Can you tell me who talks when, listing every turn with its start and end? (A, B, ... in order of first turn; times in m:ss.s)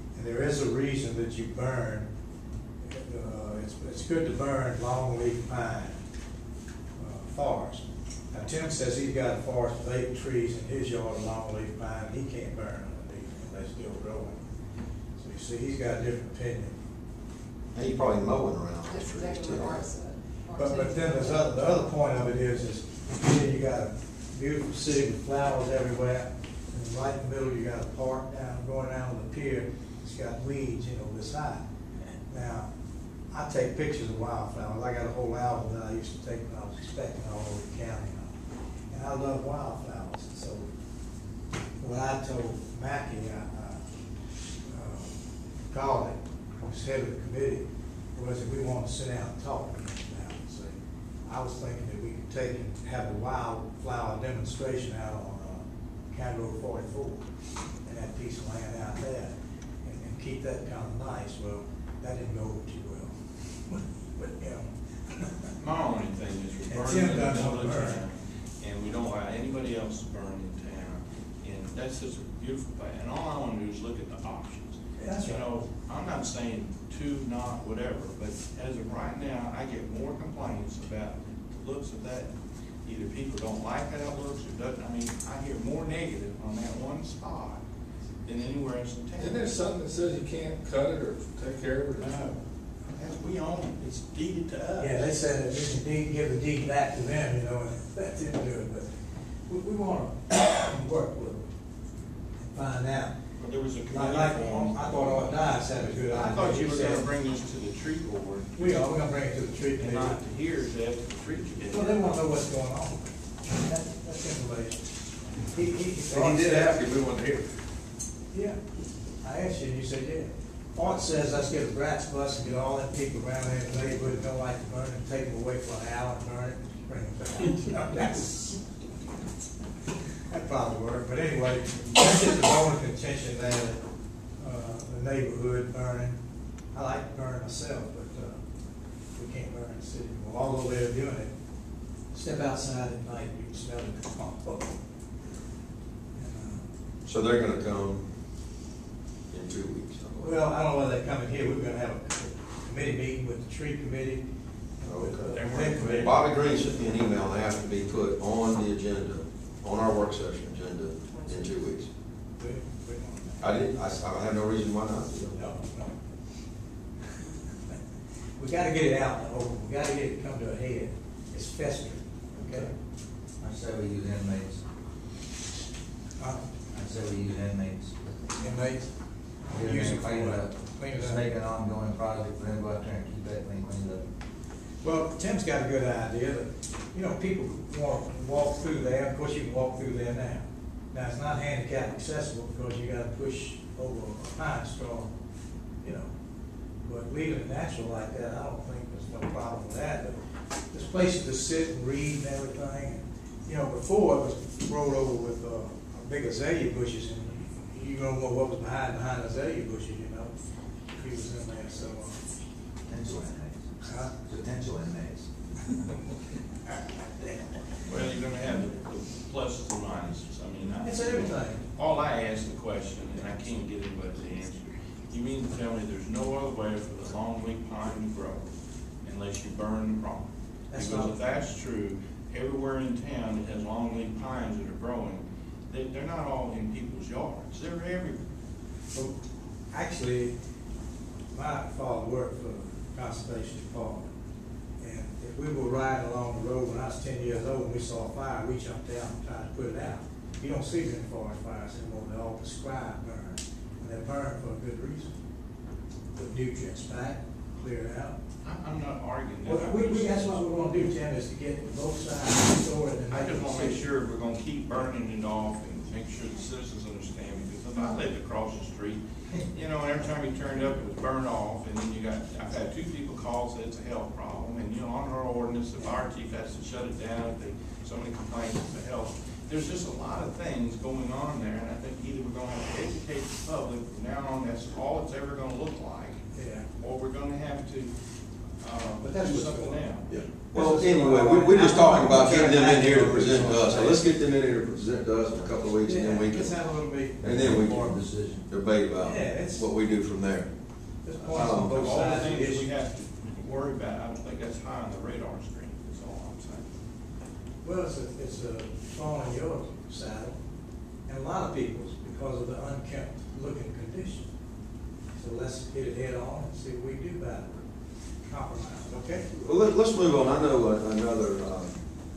0:00.1-0:02.1 A
0:02.8-0:06.0 A
0:07.0-0:14.4 A
0:15.2-0:16.8 A
0:17.7-0:19.9 B
0:18.8-0:21.5 C
0:20.5-0:31.6 A
0:32.3-0:32.7 A
0:33.3-0:38.4 A
0:38.9-0:40.7 A
0:41.8-0:43.8 A
0:44.6-0:45.2 A
0:45.7-0:57.3 A
0:57.8-0:59.3 A
0:59.8-1:05.5 A
1:05.6-1:22.3 D
1:06.7-1:08.0 A
1:15.0-1:15.4 A
1:22.8-1:27.6 D
1:28.2-1:29.5 D
1:29.1-1:32.3 E
1:32.0-1:35.1 D
1:34.8-1:38.9 A
1:39.5-1:41.5 A
1:42.4-1:43.2 A
1:43.4-1:48.9 D
1:43.9-1:47.1 A
1:48.6-1:50.2 A
1:49.8-1:52.2 D
1:51.6-1:54.9 A
1:55.4-1:56.8 A
1:56.1-1:57.4 B
1:58.3-1:58.6 A
1:59.2-2:08.6 A
2:10.3-2:13.8 A
2:14.4-2:16.2 A
2:16.7-2:18.4 A
2:19.1-2:21.3 A
2:22.1-2:24.8 A
2:26.2-2:26.6 A
2:27.0-2:28.1 B
2:29.3-2:30.4 B
2:30.2-2:34.3 A
2:34.8-2:36.1 A
2:34.8-2:41.9 B
2:35.3-2:36.3 D
2:42.4-2:43.6 A
2:43.4-2:45.4 B
2:45.2-2:46.0 A
2:48.4-2:52.7 A
2:53.4-2:54.6 F
2:56.2-2:56.4 A
2:56.7-2:58.2 F
2:58.4-3:01.2 A
2:59.5-3:04.0 F
3:04.8-3:15.1 A
3:15.8-3:16.1 A
3:16.8-3:20.2 A
3:20.7-3:30.3 A
3:30.9-3:32.2 A
3:32.8-3:35.9 F
3:33.8-3:34.1 A
3:37.8-3:48.5 D
3:40.8-3:41.6 A
3:49.0-3:58.2 D
3:50.7-3:51.2 A
3:59.7-4:00.3 A
4:01.3-4:04.1 A
4:04.8-4:15.1 A
4:16.1-4:18.2 A
4:18.4-4:20.4 D
4:19.4-4:23.8 A
4:23.1-4:47.9 D
4:46.3-4:46.7 A
4:48.6-4:50.2 D
4:49.0-4:49.8 A
4:50.1-4:56.6 B
4:50.5-4:54.0 A
4:55.8-4:58.0 A
4:57.2-4:57.9 B
4:57.2-4:58.4 F
4:58.5-5:00.5 B
4:59.0-4:59.6 A
5:01.0-5:02.7 A
5:01.3-5:01.9 B
5:01.6-5:06.7 D
5:07.6-5:10.4 A
5:11.1-5:14.3 A
5:15.1-5:17.6 A
5:18.2-5:19.3 A
5:19.3-5:21.8 B